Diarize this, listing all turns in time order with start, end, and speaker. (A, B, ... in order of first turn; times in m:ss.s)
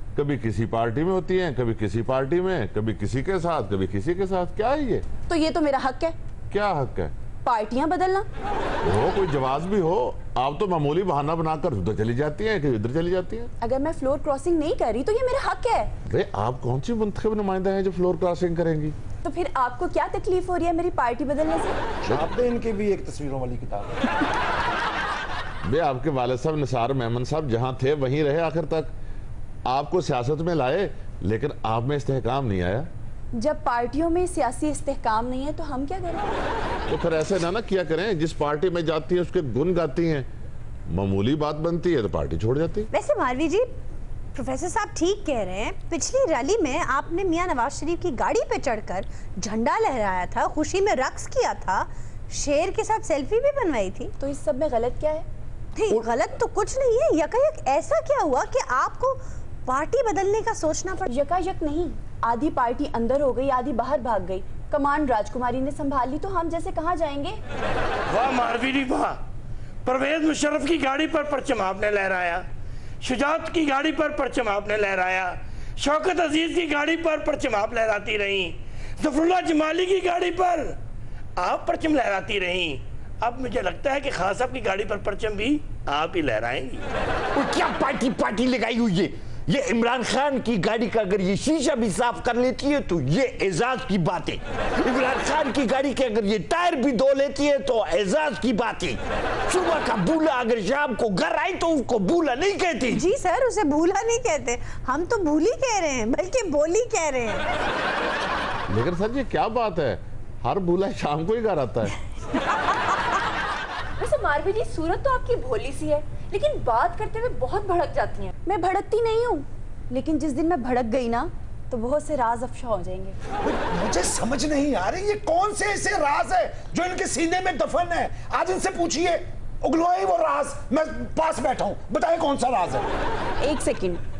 0:00.2-0:05.0 A
0:05.3-0:06.1 B
0:06.5-0:07.1 A
0:07.4-0:08.3 B
0:08.8-0:13.5 A
0:13.6-0:15.9 B
0:16.1-0:19.0 A
0:19.2-0:21.8 B
0:22.0-0:24.1 C
0:25.6-0:28.9 A
0:29.7-0:32.9 A
0:33.3-0:36.3 B
0:36.9-0:40.3 A
0:40.9-0:42.9 A
0:42.9-0:43.7 D
0:44.3-0:54.1 D
0:54.2-0:55.2 B
0:55.8-1:01.1 D
1:01.1-1:07.4 B
1:08.1-1:09.2 E
1:09.8-1:12.4 E
1:13.0-1:20.8 E
1:21.4-1:26.9 E
1:27.4-1:43.0 F
1:42.9-1:47.5 D
1:48.7-1:51.9 A
1:54.0-1:58.3 G
1:58.5-2:03.2 B
2:03.4-2:12.9 C
2:13.4-2:14.0 B